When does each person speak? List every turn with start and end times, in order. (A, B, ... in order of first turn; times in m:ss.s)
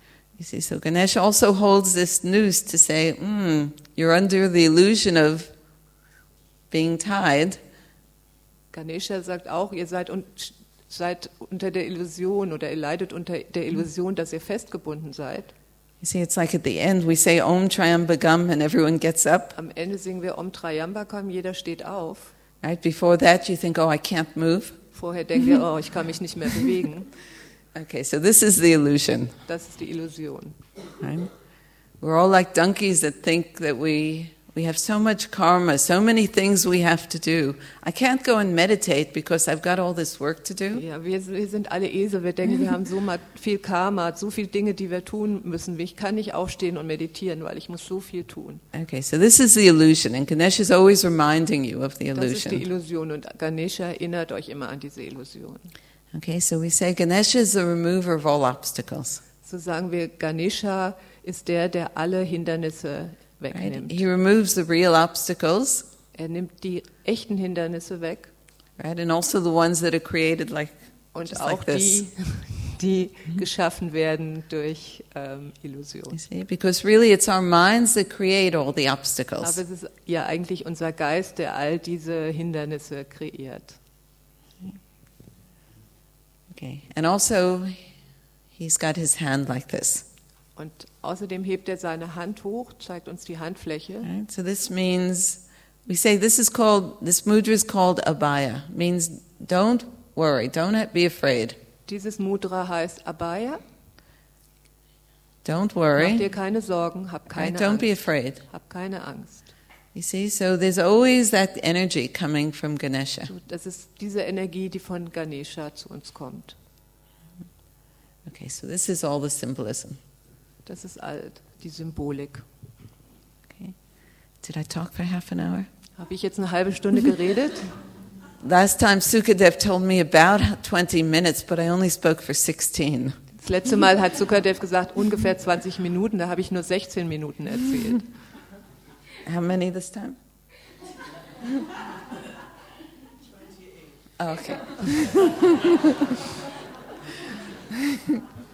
0:00.4-0:05.5 A
0:06.7-0:07.6 A
0:08.7-0:15.5 B
0:16.0-0:19.6 A
0:19.6-0:22.3 B
0:22.6-0:24.8 A
0:24.9-0:27.1 B
0:27.7-0:29.3 A
0:29.5-0:30.6 B
0:31.0-0:31.3 A
0:32.0-0:40.8 A
0:40.7-0:48.6 B
0:48.7-0:52.6 A
0:52.2-0:55.7 B
0:56.1-0:59.2 A
0:59.4-1:04.0 B
1:03.5-1:05.9 A
1:06.2-1:08.3 B
1:08.8-1:12.0 A
1:11.1-1:16.2 B
1:16.1-1:19.6 A
1:19.4-1:23.8 B
1:26.5-1:27.8 A
1:28.6-1:30.0 A
1:30.6-1:34.1 B
1:34.0-1:41.6 A
1:41.9-1:43.6 B
1:45.4-1:46.2 A
1:46.0-1:47.9 B
1:47.3-1:48.4 A
1:48.4-1:49.5 B
1:49.9-1:53.3 A
1:53.3-1:56.6 B
1:58.2-2:00.0 A
2:00.7-2:02.4 B
2:03.5-2:03.8 A
2:04.4-2:05.7 A
2:06.0-2:07.8 B
2:08.4-2:13.2 A
2:13.4-2:18.1 B
2:19.2-2:20.2 A
2:24.2-2:26.3 A
2:27.7-2:28.2 A